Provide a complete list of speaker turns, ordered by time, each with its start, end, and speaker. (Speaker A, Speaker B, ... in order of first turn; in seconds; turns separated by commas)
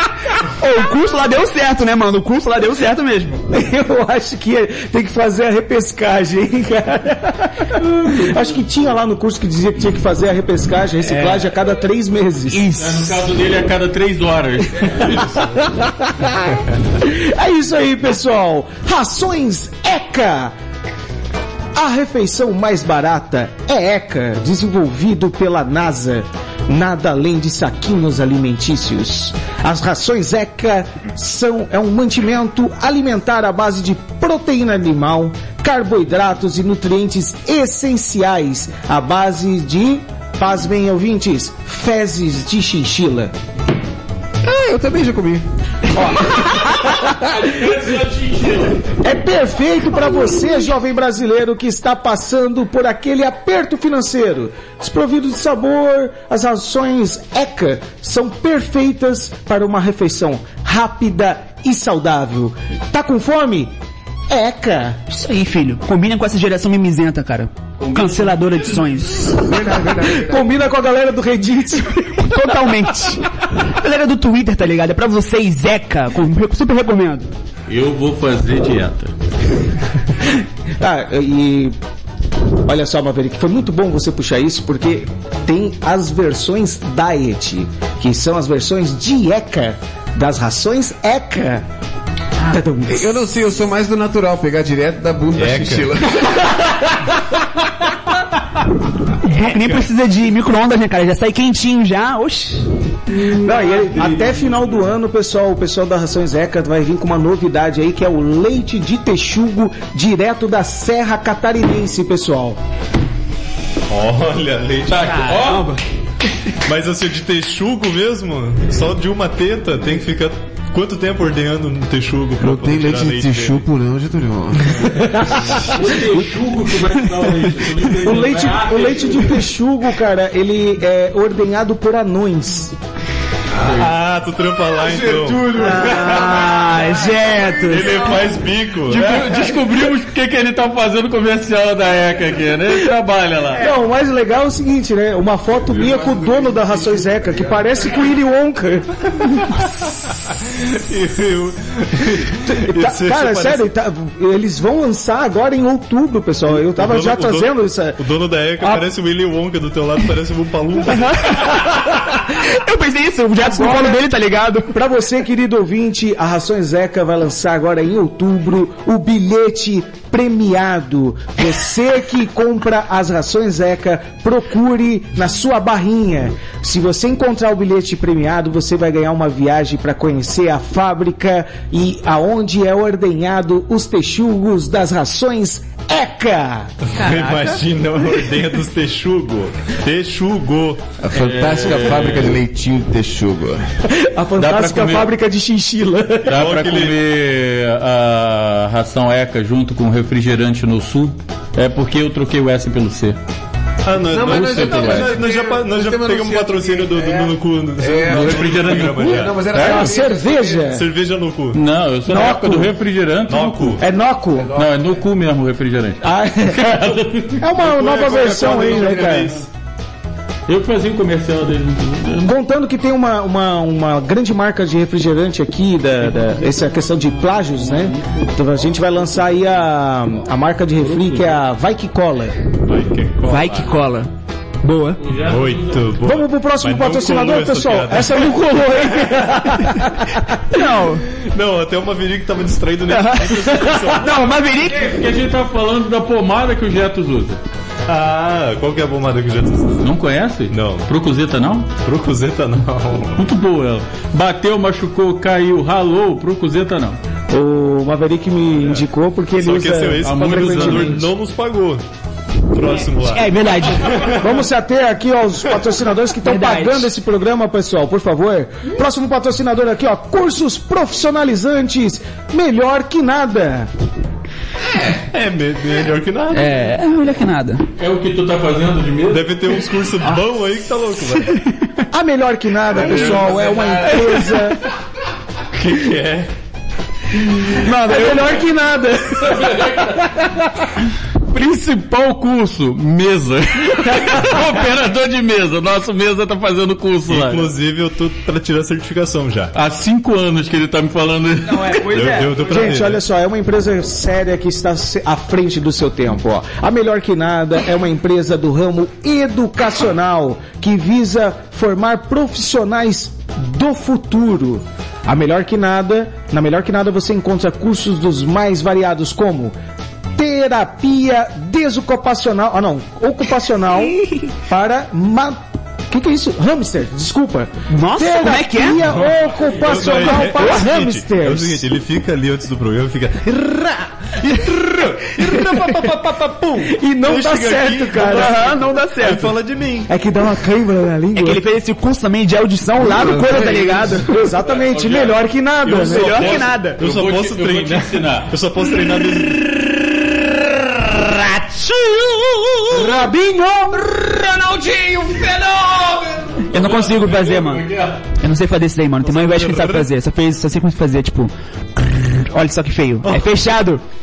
Speaker A: 0.5-3.4, Speaker B: 3.5-12.7, Speaker A: 11.1-11.4, Speaker A: 12.5-13.2, Speaker C: 12.8-15.5, Speaker B: 15.8-20.6, Speaker B: 21.7-43.3, Speaker D: 44.4-45.5, Speaker B: 45.9-47.1, Speaker C: 46.7-49.0, Speaker B: 49.0-63.8, Speaker B: 64.3-65.0, Speaker A: 65.1-70.1, Speaker C: 67.8-68.8, Speaker B: 69.4-72.3, Speaker A: 72.1-77.3, Speaker C: 77.7-79.1, Speaker B: 80.3-81.8, Speaker B: 82.7-91.7, Speaker B: 92.4-93.4, Speaker D: 92.9-96.5, Speaker E: 95.4-95.9, Speaker A: 99.2-102.7, Speaker B: 103.2-112.6, Speaker E: 113.9-115.2, Speaker C: 114.9-115.8, Speaker A: 115.1-115.8, Speaker E: 116.6-123.7, Speaker D: 122.4-125.2, Speaker B: 125.1-125.5, Speaker C: 125.6-129.3, Speaker B: 128.0-132.8, Speaker D: 133.5-133.9, Speaker C: 133.6-133.9, Speaker E: 133.8-135.6, Speaker D: 134.8-138.3, Speaker B: 135.6-136.3, Speaker A: 135.6-138.2, Speaker E: 137.7-139.1, Speaker C: 138.9-143.7, Speaker B: 143.5-149.4, Speaker D: 145.6-148.1, Speaker E: 150.5-153.7, Speaker B: 152.4-158.0, Speaker E: 156.5-161.3, Speaker B: 158.6-158.8, Speaker A: 161.0-164.8, Speaker B: 163.4-164.1, Speaker B: 164.7-186.7, Speaker E: 186.8-190.8, Speaker A: 187.0-187.5, Speaker D: 191.0-193.7, Speaker C: 191.1-192.4, Speaker B: 193.9-196.4, Speaker C: 194.4-195.1, Speaker C: 196.3-203.2, Speaker E: 196.3-197.0, Speaker E: 203.8-209.6, Speaker D: 204.1-210.8, Speaker C: 204.2-205.2, Speaker C: 208.1-209.8, Speaker B: 209.5-210.8, Speaker E: 210.7-211.6, Speaker C: 211.5-213.8, Speaker B: 212.1-212.7, Speaker E: 213.3-213.8, Speaker B: 213.8-214.5, Speaker D: 214.4-214.8, Speaker C: 214.6-217.5, Speaker B: 216.0-219.3, Speaker E: 217.6-219.3, Speaker D: 217.9-219.3, Speaker C: 218.4-219.4, Speaker C: 220.5-222.3, Speaker B: 222.2-232.4, Speaker C: 227.6-228.3, Speaker C: 230.8-231.4, Speaker E: 232.7-233.6, Speaker C: 233.2-233.8, Speaker A: 233.3-234.1, Speaker A: 234.6-235.0, Speaker C: 235.0-236.0, Speaker E: 235.2-238.3, Speaker B: 236.0-240.5, Speaker A: 240.5-241.1, Speaker E: 241.2-244.3, Speaker A: 242.9-245.0, Speaker C: 243.3-244.0, Speaker C: 244.6-247.4, Speaker E: 247.9-250.0, Speaker C: 249.8-251.7, Speaker E: 250.5-250.9, Speaker E: 251.8-253.2, Speaker C: 253.2-257.0, Speaker B: 257.3-261.1, Speaker E: 259.4-261.8, Speaker C: 260.0-261.1, Speaker E: 262.5-264.3, Speaker A: 263.0-264.2, Speaker B: 264.0-273.7, Speaker A: 266.2-266.9, Speaker D: 274.6-275.0, Speaker E: 275.1-276.7, Speaker A: 276.3-277.6, Speaker C: 277.8-279.6, Speaker E: 279.1-281.4, Speaker A: 280.0-280.3, Speaker A: 280.9-281.4, Speaker B: 281.9-284.6, Speaker E: 282.9-283.2, Speaker D: 282.9-284.4, Speaker E: 285.6-286.3, Speaker A: 287.5-288.5, Speaker B: 287.8-289.6, Speaker C: 289.1-290.3, Speaker C: 291.3-297.5, Speaker E: 297.1-299.5, Speaker C: 299.5-301.9, Speaker A: 301.5-302.6, Speaker E: 301.9-303.0, Speaker B: 302.3-319.6, Speaker B: 320.2-331.7, Speaker A: 323.8-324.4, Speaker A: 327.7-328.9, Speaker C: 328.8-330.0, Speaker E: 329.5-339.9, Speaker B: 334.5-335.8, Speaker A: 335.2-335.8, Speaker B: 336.6-338.4, Speaker A: 337.9-339.4, Speaker B: 339.9-341.4, Speaker A: 341.1-344.1, Speaker D: 342.8-343.9, Speaker B: 343.7-346.2, Speaker C: 344.4-345.2, Speaker E: 345.6-349.6, Speaker A: 345.7-346.8, Speaker C: 346.0-348.3, Speaker A: 350.8-353.1, Speaker B: 352.8-353.7, Speaker D: 353.9-356.4, Speaker A: 356.5-357.7, Speaker C: 356.5-358.0, Speaker A: 358.2-363.8, Speaker E: 359.0-359.9